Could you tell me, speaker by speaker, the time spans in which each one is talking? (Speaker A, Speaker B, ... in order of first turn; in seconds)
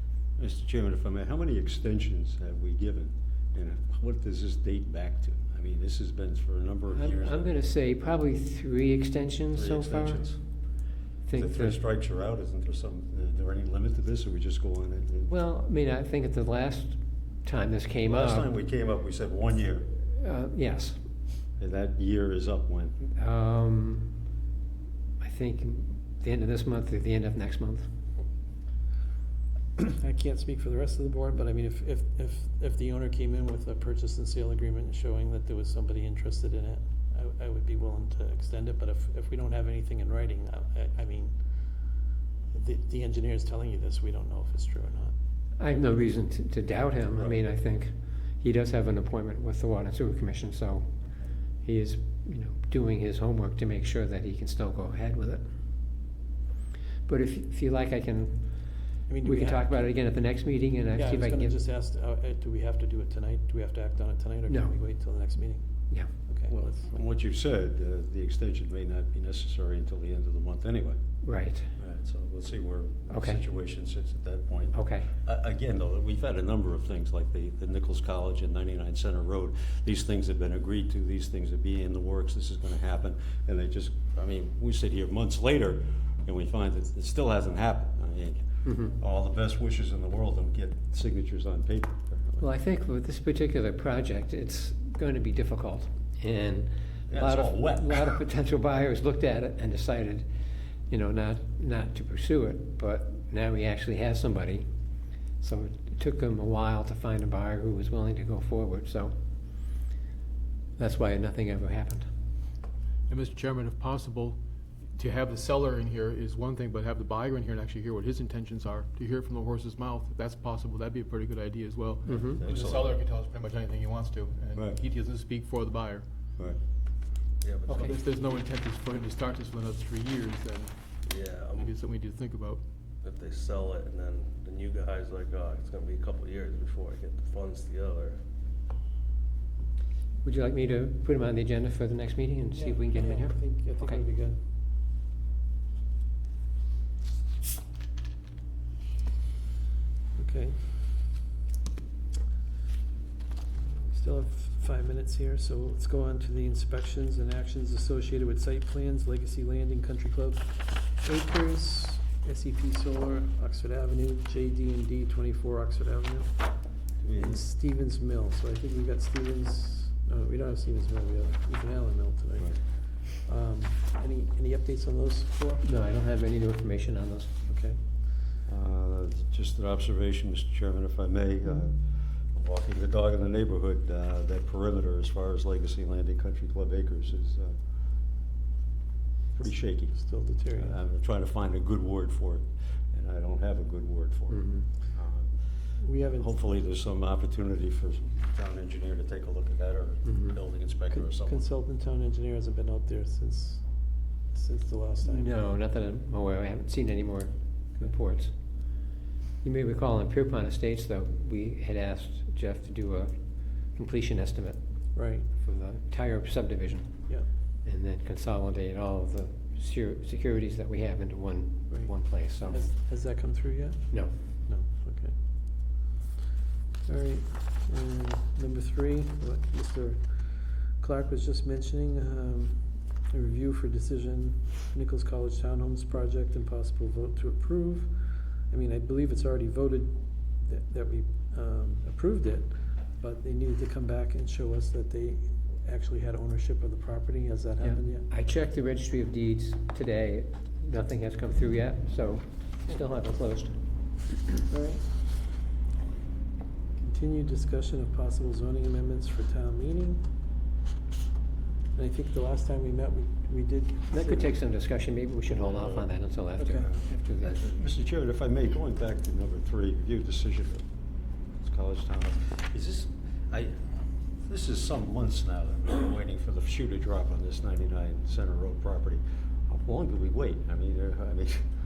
Speaker A: 0.4-7.5, 9.5-10.4, 11.3-15.3, 18.1-19.9, 21.6-23.0, 66.5-71.0, 71.8-92.3, 97.1-98.2, 122.4-123.0, 124.5-124.8, 167.0-167.4, 178.5-181.8, 182.3-187.6, 189.3-190.0, 190.6-201.4, 267.2-270.6, 271.4-273.6, 274.2-281.4
Speaker B: 6.9-10.2, 11.2-11.8, 15.3-18.5, 20.1-21.0, 23.1-24.2, 25.2-27.9, 45.6-50.9, 51.6-55.4, 57.1-58.4, 59.2-61.6, 64.5-64.8, 71.2-71.7, 73.1-73.4, 74.7-75.1, 88.7-88.9, 92.4-100.3, 100.9-104.7, 105.4-109.1, 110.8-112.1, 122.0-122.4, 140.2-144.0, 175.6-177.3, 194.3-194.7, 200.1-200.3, 205.0-208.3, 209.4-213.1, 213.8-214.6, 215.4-217.0, 217.7-222.7, 247.6-253.6, 263.9-267.4
Speaker C: 29.9-41.4, 42.5-45.1, 59.1-59.7, 61.0-67.0, 142.5-144.4, 150.2-150.8, 153.8-166.3, 167.2-175.7, 177.4-177.8, 189.9-190.8, 195.8-196.3, 200.9-203.7, 204.3-205.3, 214.9-215.3, 221.7-225.1, 226.8-248.1, 254.5-254.9, 256.8-260.1, 261.7-264.3, 266.4-266.7
Speaker D: 113.1-114.4, 114.9-126.1, 127.7-131.0, 131.6-132.6
Speaker E: 127.4-128.5, 131.0-131.8, 133.0-138.2